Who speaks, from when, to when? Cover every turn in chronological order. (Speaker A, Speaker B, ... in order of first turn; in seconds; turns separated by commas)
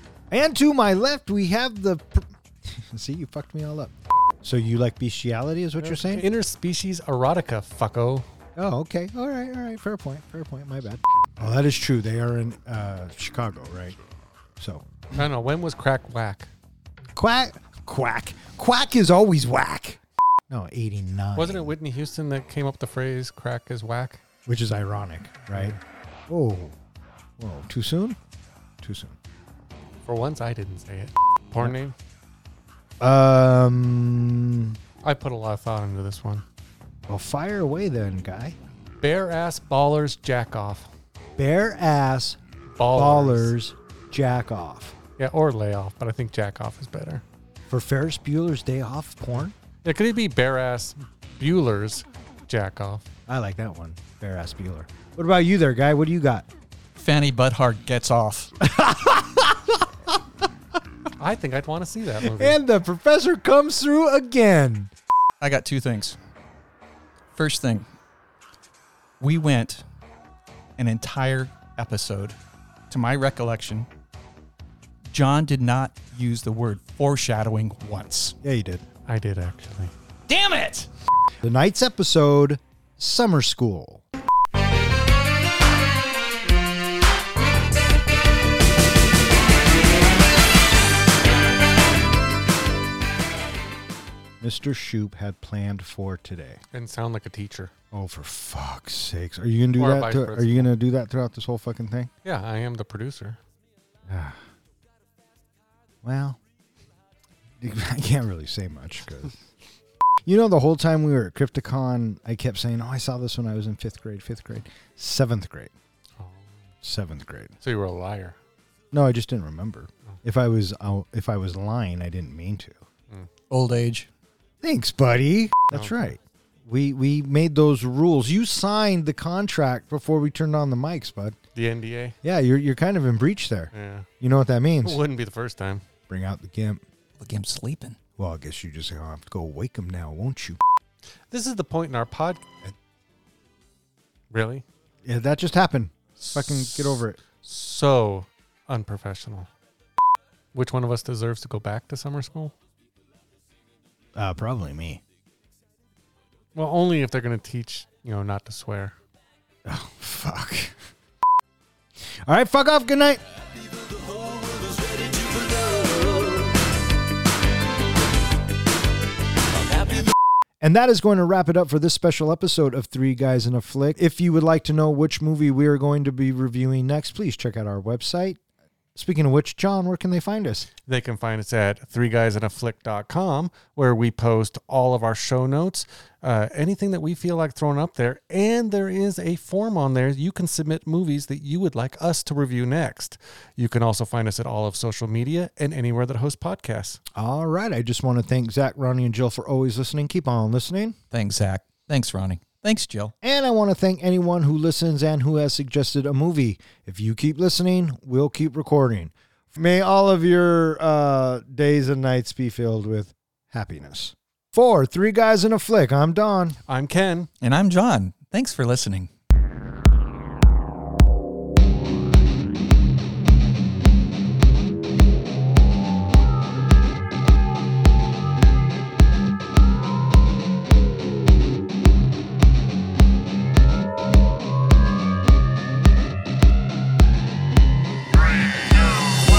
Speaker A: 0.3-6.3, Speaker B: 5.8-8.3, Speaker A: 8.6-14.0, Speaker A: 14.6-14.9, Speaker B: 15.1-16.5, Speaker A: 17.2-21.8, Speaker B: 21.4-24.2, Speaker A: 24.5-25.8, Speaker B: 25.5-25.8, Speaker A: 26.3-26.8, Speaker A: 27.4-28.2, Speaker A: 28.8-29.2, Speaker B: 30.1-31.9, Speaker A: 33.0-34.8, Speaker B: 35.0-36.5, Speaker A: 37.1-38.6, Speaker B: 39.0-40.9, Speaker A: 41.4-42.4, Speaker B: 42.8-43.5, Speaker A: 42.9-45.0, Speaker B: 45.2-47.2, Speaker A: 47.7-49.5, Speaker B: 49.8-53.0, Speaker A: 53.3-56.5, Speaker C: 57.0-58.5, Speaker A: 58.6-60.2, Speaker B: 61.2-62.6, Speaker A: 62.2-64.9, Speaker C: 65.4-66.2, Speaker C: 67.3-67.9, Speaker C: 69.2-69.8, Speaker C: 70.8-72.4, Speaker C: 72.9-73.9, Speaker C: 75.1-78.4, Speaker A: 78.4-78.9, Speaker B: 79.1-79.9, Speaker C: 80.3-80.9, Speaker A: 81.4-84.0, Speaker A: 94.4-96.6, Speaker B: 96.7-97.7, Speaker A: 97.9-102.1, Speaker B: 99.8-100.7, Speaker B: 102.2-103.4, Speaker A: 104.1-104.4, Speaker A: 106.0-106.4, Speaker A: 107.6-109.4, Speaker A: 110.3-115.7, Speaker B: 116.2-116.5, Speaker A: 116.8-117.5, Speaker B: 117.6-118.4, Speaker A: 118.9-122.8, Speaker C: 123.5-124.1, Speaker A: 124.6-131.4, Speaker B: 131.6-132.2, Speaker A: 132.2-135.0, Speaker B: 133.7-134.1, Speaker B: 134.8-135.8, Speaker A: 136.1-136.8, Speaker C: 137.2-138.0, Speaker A: 138.2-140.6, Speaker B: 141.3-142.4, Speaker B: 144.3-144.7, Speaker A: 145.0-147.2, Speaker B: 146.2-149.5, Speaker B: 150.5-152.5, Speaker A: 154.2-155.0, Speaker B: 156.6-159.0, Speaker A: 159.7-160.8, Speaker A: 162.1-163.2, Speaker A: 170.6-178.4, Speaker A: 178.9-180.7, Speaker B: 180.9-197.0, Speaker A: 197.1-201.0, Speaker C: 201.1-203.1, Speaker A: 203.2-216.6, Speaker B: 216.7-217.3, Speaker C: 217.4-219.1